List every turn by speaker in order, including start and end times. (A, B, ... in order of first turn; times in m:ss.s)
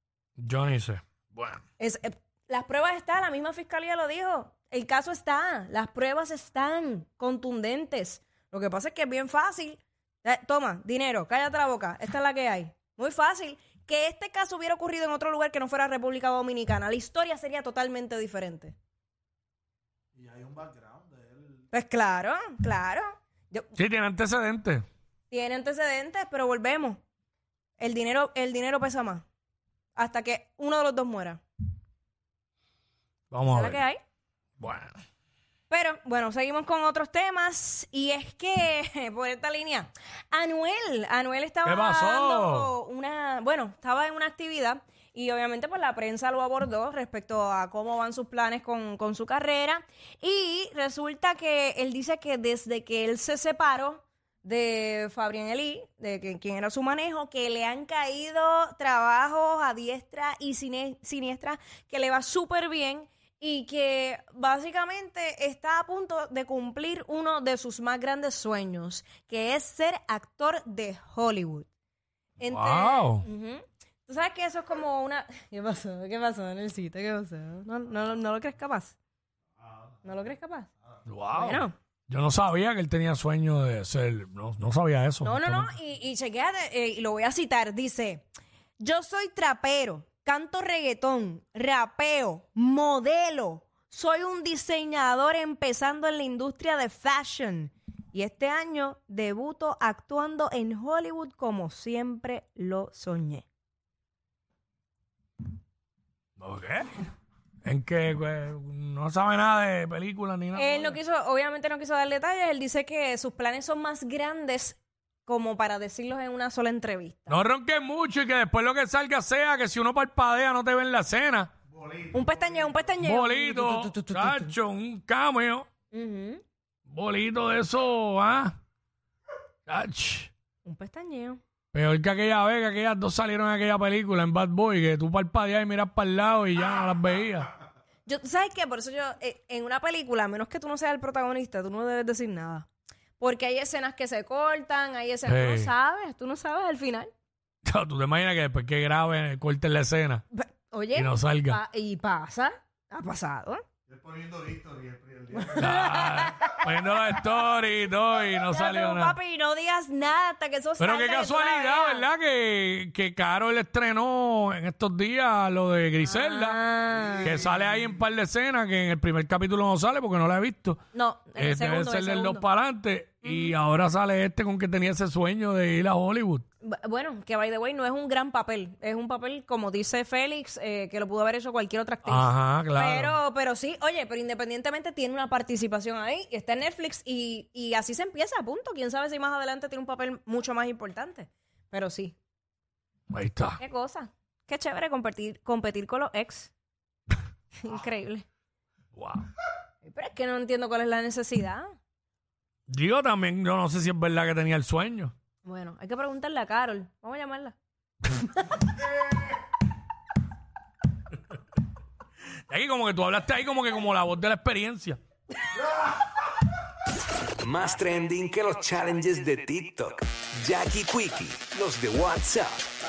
0:00.4-0:01.6 A
0:01.8-0:18.8 B
0:20.2-0:21.0 C
0:21.7-0:23.7 B
0:23.7-0:24.8 A
0:25.3-0:27.0 B
0:27.8-0:29.2 B
0:30.0-0:31.4 B
0:33.3-0:33.8 A
0:33.5-0:34.0 B
0:34.6-0:34.9 A
0:35.7-1:11.7 B
0:41.6-0:42.7 A
1:12.4-1:18.9 B
1:12.5-1:13.3 A
1:20.0-1:20.7 B
1:21.1-1:25.7 A
1:21.3-1:21.7 B
1:25.2-1:28.2 B
1:28.8-1:43.4 B
1:46.4-1:46.9 A
1:47.6-1:51.0 A
1:50.5-1:57.4 B
1:57.3-2:01.5 A
2:02.1-2:04.4 B
2:03.0-2:05.7 A
2:05.9-2:06.4 B
2:06.9-2:08.6 A
2:09.7-2:10.3 A
2:10.6-2:11.4 B
2:11.7-2:17.5 A
2:18.1-2:22.7 B
2:23.2-2:27.1 B
2:25.3-2:25.7 A
2:27.6-2:30.2 A
2:30.3-2:33.6 B
2:30.9-2:31.6 A
2:34.0-2:35.3 C
2:35.3-2:36.6 B
2:35.6-2:39.2 A
2:38.5-2:42.0 B
2:40.8-2:46.6 A
2:46.1-2:47.3 B
2:47.2-2:50.8 A
2:50.9-2:52.4 B
2:51.4-2:56.4 A
2:53.2-2:53.6 B
2:56.6-3:12.2 B
3:02.1-3:03.2 A
3:13.1-3:13.6 A
3:13.6-3:16.5 B
3:17.6-3:18.2 B
3:19.0-3:19.3 A
3:19.8-3:21.7 B
3:22.7-3:25.1 A
3:25.4-3:27.6 B
3:32.5-3:35.0 A
3:37.4-3:42.6 D